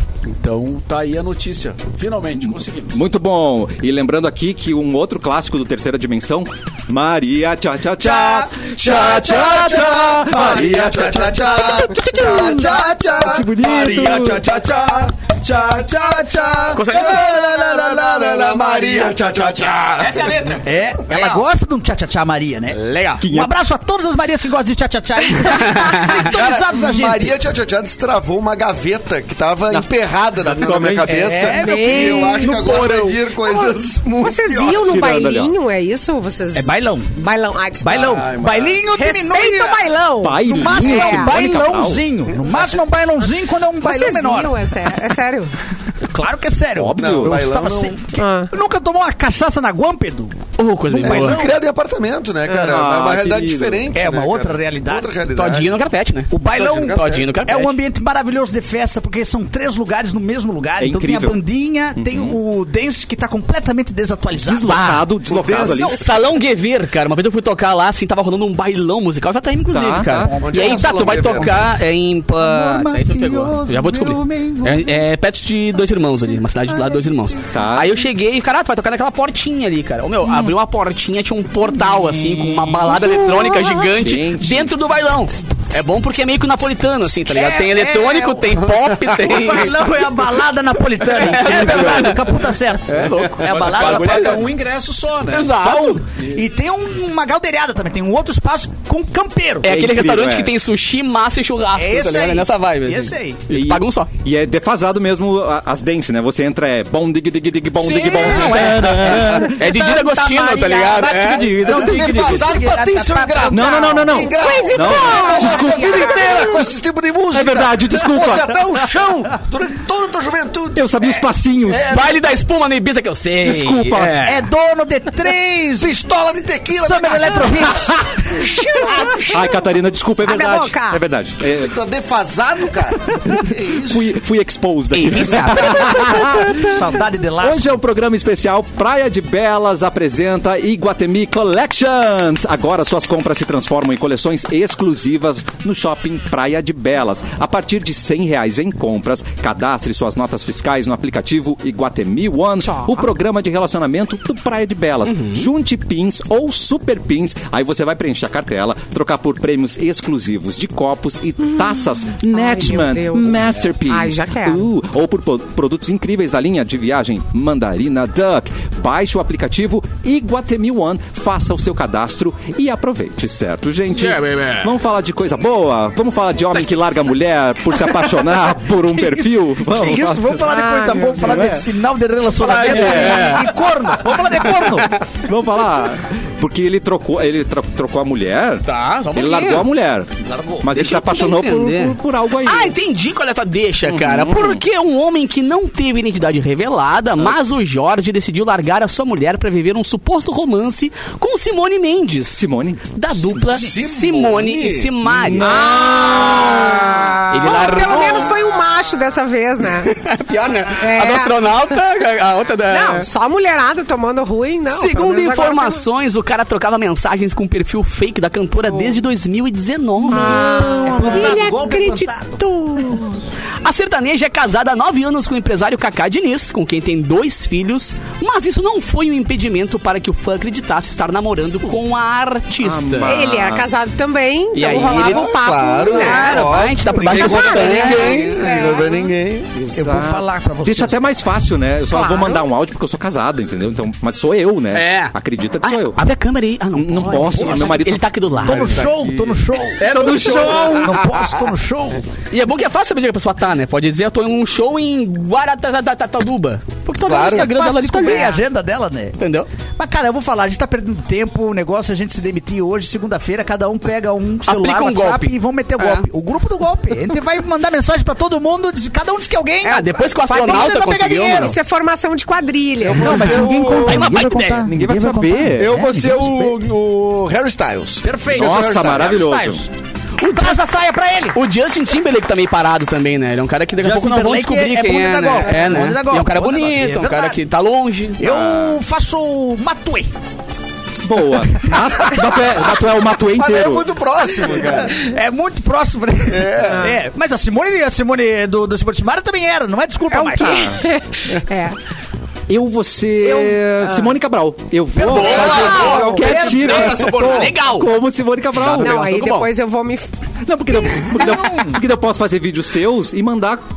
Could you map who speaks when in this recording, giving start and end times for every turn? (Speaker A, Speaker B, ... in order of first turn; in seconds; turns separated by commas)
Speaker A: 0.2-3.0, Speaker B: 2.9-12.6, Speaker C: 8.0-13.3, Speaker D: 8.8-20.5, Speaker B: 13.2-14.4, Speaker C: 13.9-14.3, Speaker C: 15.8-19.4, Speaker E: 16.7-17.3, Speaker E: 19.9-21.4, Speaker C: 20.6-27.3, Speaker E: 22.7-23.2, Speaker B: 23.2-23.5, Speaker E: 25.6-26.1, Speaker D: 26.1-34.9, Speaker B: 29.7-31.3, Speaker C: 31.1-32.9, Speaker F: 31.5-32.8, Speaker F: 33.4-38.1, Speaker B: 34.7-35.5, Speaker C: 36.5-37.2, Speaker C: 37.8-39.8, Speaker D: 38.0-38.8, Speaker F: 38.9-41.4, Speaker B: 40.2-42.0, Speaker C: 40.4-44.6, Speaker F: 43.8-45.5, Speaker C: 46.0-50.4, Speaker B: 46.8-47.4, Speaker D: 47.0-48.1, Speaker F: 48.1-48.5, Speaker E: 50.6-51.4, Speaker C: 50.9-51.6, Speaker D: 51.0-55.7, Speaker B: 52.6-53.8, Speaker C: 53.9-55.1, Speaker E: 55.3-57.8, Speaker C: 56.3-65.0, Speaker D: 56.5-57.3, Speaker B: 60.8-61.4, Speaker B: 62.0-62.4, Speaker B: 64.4-66.0, Speaker D: 65.3-66.1, Speaker E: 65.6-89.7, Speaker B: 69.7-70.3, Speaker C: 70.2-71.5, Speaker D: 70.4-71.7, Speaker C: 72.4-75.0, Speaker C: 76.7-77.5, Speaker B: 77.5-78.0, Speaker C: 82.1-83.4, Speaker B: 83.7-84.7, Speaker C: 87.2-94.3, Speaker D: 88.6-89.3, Speaker E: 91.0-94.4, Speaker A: 93.4-95.6, Speaker E: 95.3-96.0, Speaker C: 95.6-99.8, Speaker E: 99.6-104.1, Speaker B: 99.7-100.5, Speaker C: 101.7-103.4, Speaker B: 103.5-109.5, Speaker E: 107.8-111.7, Speaker C: 108.2-114.2, Speaker B: 111.6-112.5, Speaker D: 111.7-122.2, Speaker B: 113.5-116.4, Speaker F: 114.4-116.5, Speaker B: 117.3-118.6, Speaker B: 120.7-121.9, Speaker E: 121.9-124.4, Speaker B: 123.4-124.2, Speaker C: 124.2-126.0, Speaker D: 125.8-129.1, Speaker C: 126.7-128.4, Speaker B: 127.8-128.1, Speaker F: 128.4-129.6, Speaker B: 129.3-131.7, Speaker F: 130.2-131.0, Speaker D: 131.5-134.1, Speaker B: 133.8-136.8, Speaker E: 134.9-135.9, Speaker C: 135.1-137.8, Speaker B: 137.4-180.4, Speaker F: 152.6-153.0, Speaker E: 155.1-155.5, Speaker F: 162.3-164.7, Speaker E: 173.9-174.7, Speaker C: 179.6-185.0, Speaker F: 180.5-181.3, Speaker B: 181.2-181.7, Speaker E: 182.4-183.5, Speaker B: 182.6-183.4, Speaker B: 185.0-192.7, Speaker E: 188.6-189.7, Speaker C: 190.2-190.7, Speaker E: 190.7-205.5, Speaker B: 193.9-194.6, Speaker B: 202.3-202.8, Speaker C: 203.1-203.8, Speaker D: 203.5-204.9, Speaker B: 205.1-207.2, Speaker F: 205.5-209.9, Speaker E: 207.3-208.3, Speaker E: 209.8-213.1, Speaker F: 210.7-211.4, Speaker F: 212.7-215.8, Speaker E: 214.7-220.6, Speaker F: 218.6-219.0, Speaker C: 220.1-222.4, Speaker F: 220.1-223.2, Speaker E: 223.6-233.2, Speaker B: 232.6-233.7, Speaker F: 233.0-239.1, Speaker E: 234.5-238.8, Speaker D: 234.7-239.5, Speaker B: 239.5-246.0, Speaker C: 239.7-241.1, Speaker F: 241.9-242.4, Speaker E: 244.7-248.8, Speaker B: 246.7-248.1, Speaker C: 247.3-247.7, Speaker C: 248.4-252.0, Speaker D: 248.4-249.4, Speaker E: 249.8-250.9, Speaker B: 249.8-251.0, Speaker E: 252.3-258.4, Speaker D: 257.0-257.5, Speaker C: 257.2-259.2, Speaker E: 259.2-259.5, Speaker C: 259.8-271.6, Speaker E: 264.4-266.1, Speaker F: 269.6-273.3, Speaker E: 269.6-271.6, Speaker D: 272.8-274.1, Speaker C: 272.9-276.6, Speaker E: 273.1-274.6, Speaker B: 274.4-275.7, Speaker D: 275.6-279.2, Speaker C: 278.0-279.7, Speaker B: 278.4-279.6, Speaker E: 280.2-280.6, Speaker C: 280.3-281.4, Speaker E: 281.3-288.3, Speaker C: 283.8-287.4, Speaker C: 288.2-290.1, Speaker B: 288.2-288.7, Speaker B: 291.0-293.9, Speaker D: 293.3-295.0, Speaker C: 294.5-300.7, Speaker D: 296.3-296.9, Speaker F: 296.7-297.0, Speaker F: 300.1-301.8, Speaker B: 300.4-300.8, Speaker B: 302.5-309.0, Speaker F: 303.2-304.1, Speaker E: 305.0-307.9, Speaker C: 305.0-306.9, Speaker D: 305.1-307.4, Speaker E: 308.6-309.5, Speaker F: 308.7-310.1, Speaker B: 310.4-313.6, Speaker C: 311.0-311.8